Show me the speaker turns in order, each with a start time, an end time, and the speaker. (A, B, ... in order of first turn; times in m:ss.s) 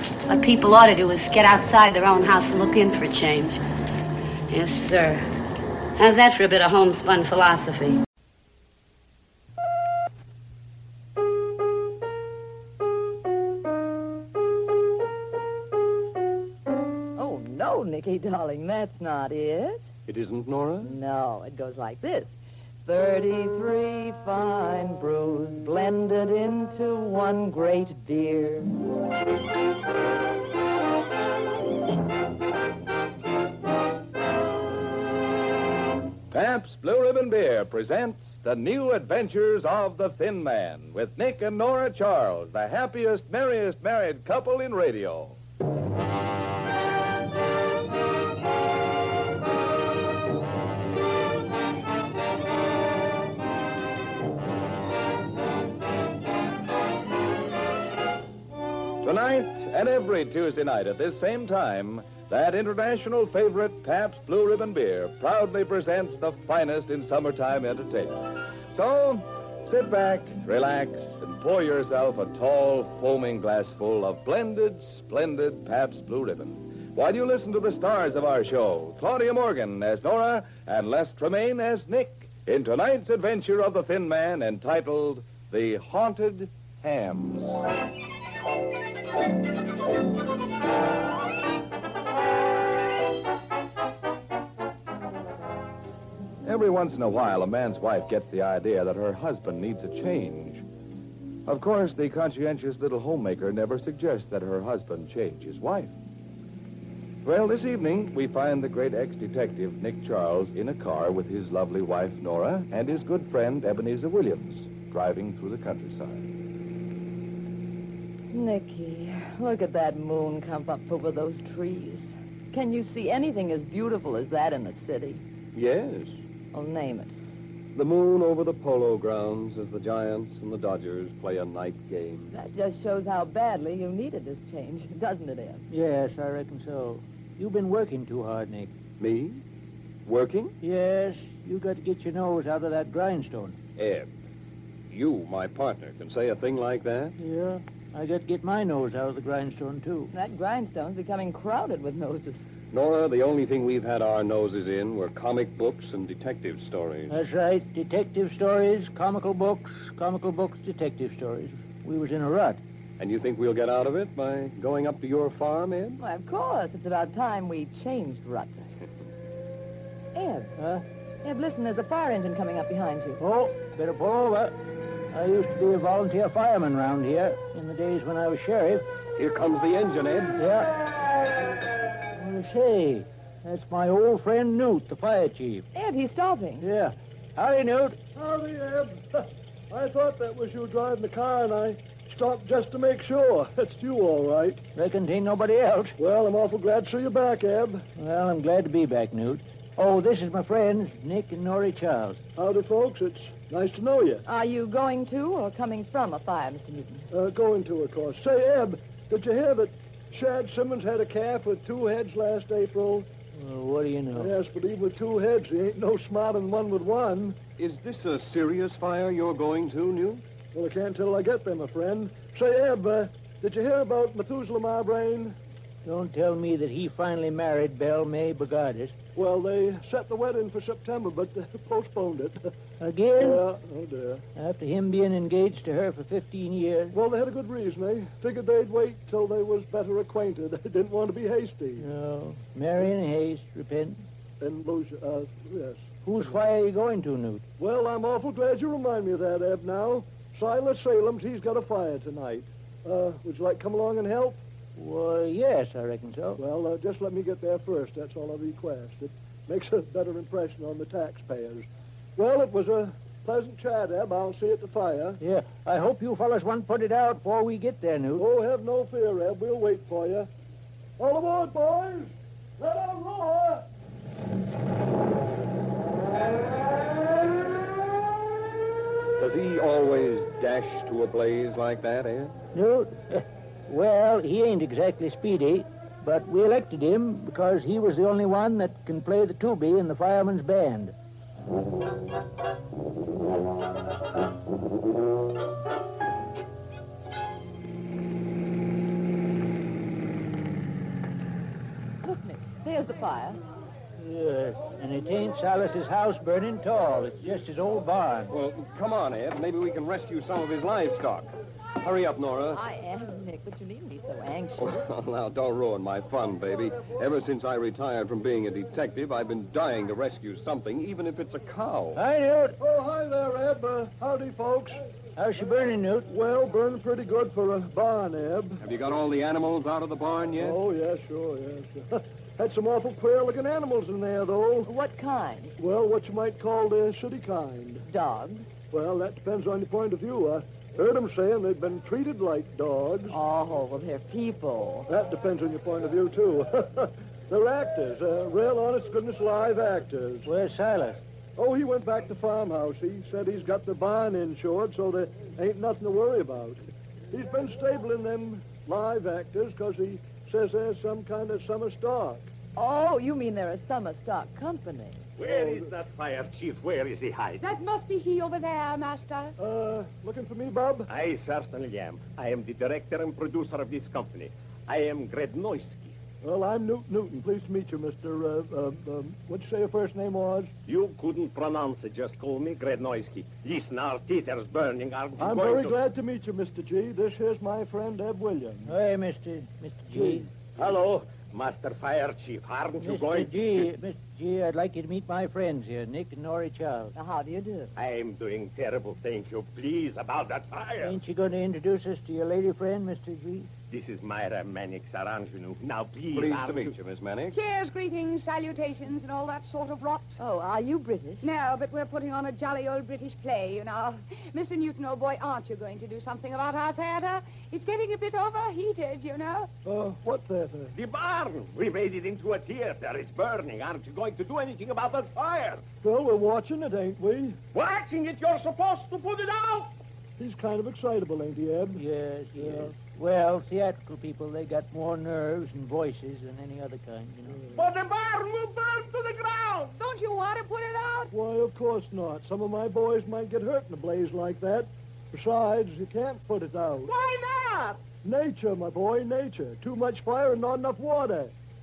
0:00.3-0:03.6 A
0:04.5-0:05.3 A
0:06.0-0:08.0 A
0:17.2-0:19.8 B
0:20.1-0:21.0 C
0:20.8-0:22.3 B
0:22.9-0:28.7 B
0:36.3-0:45.4 D
0:59.0-1:08.2 D
1:08.7-1:27.6 D
1:36.4-1:40.6 D
1:41.5-1:45.9 D
1:47.2-1:56.3 D
1:58.3-2:05.2 B
2:05.6-2:06.1 C
2:06.5-2:07.1 B
2:07.8-2:12.3 C
2:12.3-2:15.6 B
2:15.7-2:18.7 E
2:19.0-2:19.4 C
2:20.1-2:20.5 C
2:20.6-2:23.6 E
2:23.8-2:24.1 C
2:24.9-2:27.2 C
2:27.2-2:30.1 E
2:30.1-2:32.4 B
2:32.7-2:37.1 C
2:37.1-2:42.6 E
2:43.0-2:46.0 C
2:46.0-2:48.7 B
2:50.2-2:50.5 B
2:50.6-2:50.8 E
2:51.2-2:53.2 B
2:53.2-2:54.6 E
2:55.1-2:58.8 E
2:59.2-3:00.4 C
3:00.4-3:00.7 E
3:02.2-3:05.7 E
3:05.7-3:06.6 B
3:06.6-3:08.0 E
3:08.2-3:14.6 F
3:14.8-3:16.0 E
3:16.0-3:17.8 F
3:18.0-3:22.2 E
3:22.4-3:24.2 F
3:24.3-3:27.1 B
3:27.1-3:33.1 F
3:33.3-3:34.3 E
3:34.2-3:37.4 F
3:37.6-3:40.2 C
3:40.5-3:45.4 F
3:45.8-3:49.0 E
3:49.2-3:52.5 F
3:52.8-3:53.4 E
3:53.2-3:54.2 F
3:54.4-3:57.0 E
3:56.9-4:01.9 F
4:01.8-4:04.0 E
4:04.4-4:05.9 F
4:06.0-4:07.4 E
4:07.6-4:14.4 F
4:14.8-4:16.4 E
4:16.4-4:25.2 F
4:25.2-4:28.3 E
4:28.2-4:30.3 F
4:31.0-4:33.6 F
4:39.2-4:42.4 C
4:42.5-4:50.9 E
5:02.0-5:03.4 B
5:04.0-5:08.3 E
5:08.3-5:12.6 C
5:12.5-5:14.8 B
5:14.6-5:22.0 C
5:22.0-5:22.6 E
5:22.6-5:24.9 F
5:25.2-5:26.1 E
5:26.1-5:28.6 F
5:28.6-5:30.6 C
5:30.4-5:34.7 F
5:34.7-5:35.6 B
5:35.6-5:37.8 F
5:37.9-5:38.5 B
5:38.7-5:43.2 F
5:43.1-5:44.9 B
5:44.9-5:50.3 F
5:50.2-5:51.0 E
5:51.4-6:02.3 F
6:02.6-6:05.0 B
6:05.2-6:07.4 G
6:05.2-6:05.7 F
6:07.4-6:09.4 H
6:09.4-6:10.9 F
6:10.9-6:16.0 G
6:16.2-6:20.5 F
6:20.7-6:25.8 G
6:25.2-6:28.7 F
6:28.7-6:30.3 E
6:30.0-6:30.3 F
6:30.6-6:33.6 G
6:32.8-6:36.9 E
6:37.0-6:37.7 B
6:37.8-6:41.0 G
6:40.8-6:43.5 E
6:43.7-6:46.8 G
6:46.1-6:47.4 C
6:47.3-6:50.2 H
6:50.2-6:51.3 B
6:51.2-6:59.5 H
6:59.6-7:00.8 F
7:00.8-7:05.6 G
7:05.8-7:07.4 F
7:07.5-7:09.7 G
7:10.2-7:11.8 F
7:11.8-7:17.4 E
7:12.4-7:12.7 F
7:17.5-7:19.7 G
7:19.8-7:21.1 H
7:21.1-7:26.9 F
7:26.8-7:27.8 H
7:28.0-7:31.3 F